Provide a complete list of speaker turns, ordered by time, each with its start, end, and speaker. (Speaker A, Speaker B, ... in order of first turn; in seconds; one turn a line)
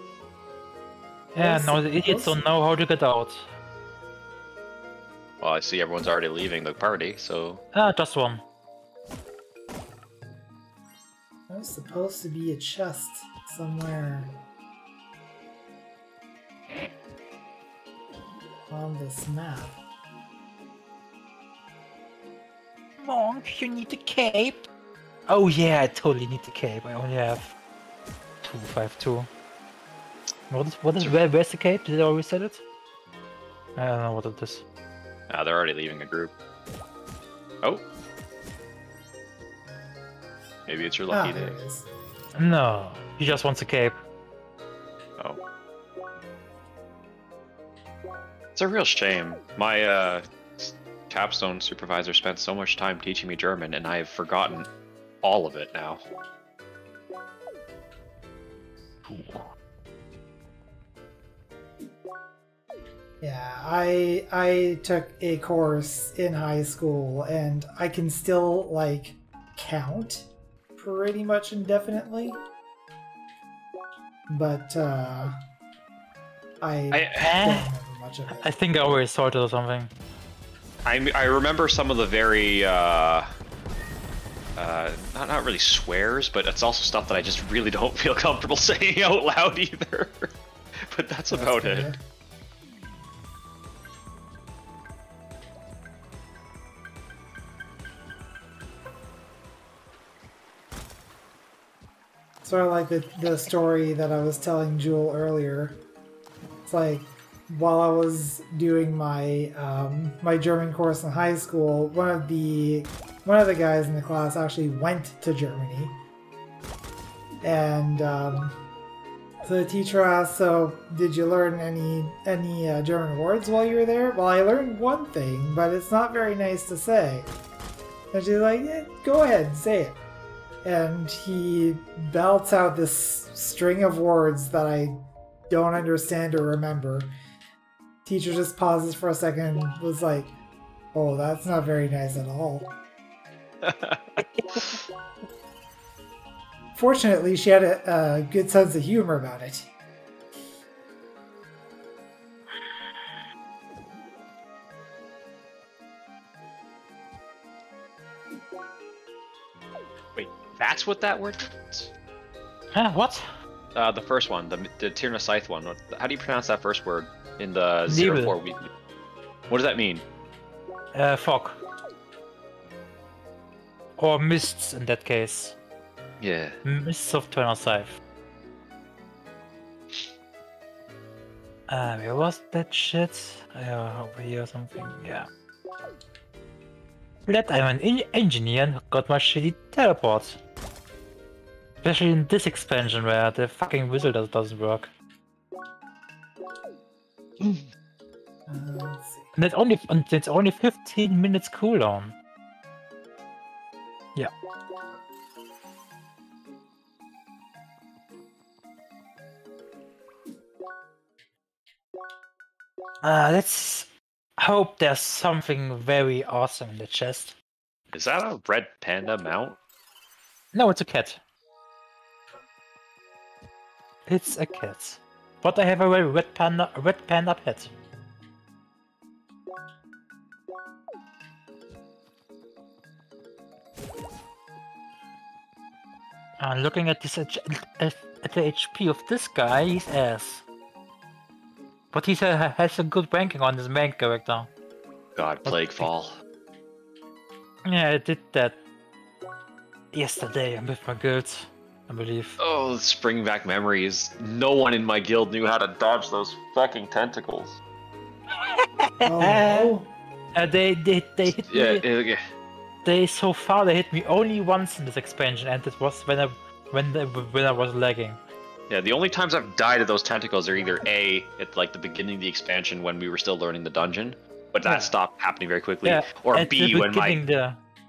Speaker A: 1.3-3.5
Speaker B: 1.4-2.4
Speaker C: 5.4-7.6
Speaker A: 7.7-8.4
Speaker B: 11.5-14.3
Speaker B: 18.7-19.8
Speaker A: 23.0-24.7
Speaker A: 25.3-27.5
Speaker A: 28.4-29.3
Speaker A: 30.5-32.6
Speaker A: 33.8-34.6
Speaker C: 35.3-36.3
Speaker C: 40.6-41.5
Speaker B: 41.1-41.9
Speaker A: 42.3-43.9
Speaker C: 48.5-54.7
Speaker C: 55.2-56.0
Speaker A: 59.0-59.5
Speaker B: 63.2-72.4
Speaker B: 74.3-75.3
Speaker B: 76.6-78.5
Speaker C: 76.9-77.3
Speaker A: 77.2-77.7
Speaker A: 78.4-79.9
Speaker C: 80.8-83.3
Speaker C: 84.6-90.3
Speaker C: 90.9-91.9
Speaker B: 91.3-92.0
Speaker B: 102.4-105.8
Speaker B: 106.7-116.0
Speaker B: 117.4-118.5
Speaker B: 119.4-127.3
Speaker B: 128.1-130.0
Speaker B: 130.6-135.0
Speaker B: 135.5-137.1
Speaker B: 138.0-140.3
Speaker B: 140.9-142.7
Speaker C: 143.6-144.8
Speaker A: 144.2-144.7
Speaker B: 146.7-149.7
Speaker C: 160.2-161.9
Speaker A: 162.7-163.2
Speaker C: 163.7-168.7
Speaker A: 167.9-168.4
Speaker C: 169.5-170.0
Speaker A: 170.9-171.6
Speaker A: 174.0-175.6
Speaker C: 176.2-176.6
Speaker A: 176.6-178.0
Speaker A: 181.7-185.3
Speaker A: 187.2-190.4
Speaker A: 191.8-194.9
Speaker B: 198.5-199.3
Speaker A: 199.3-202.1
Speaker A: 213.0-217.3
Speaker C: 217.9-219.6
Speaker A: 220.5-221.2
Speaker A: 224.1-227.7
Speaker A: 236.4-240.4
Speaker A: 241.9-244.5
Speaker C: 245.2-246.1
Speaker A: 245.4-245.9
Speaker A: 247.7-248.6
Speaker A: 249.9-252.4
Speaker C: 252.4-257.5
Speaker A: 258.3-259.7
Speaker B: 259.0-259.9
Speaker A: 260.3-261.8
Speaker C: 261.4-262.2
Speaker A: 262.8-268.2
Speaker C: 268.7-277.2
Speaker A: 274.6-274.9
Speaker A: 275.8-277.6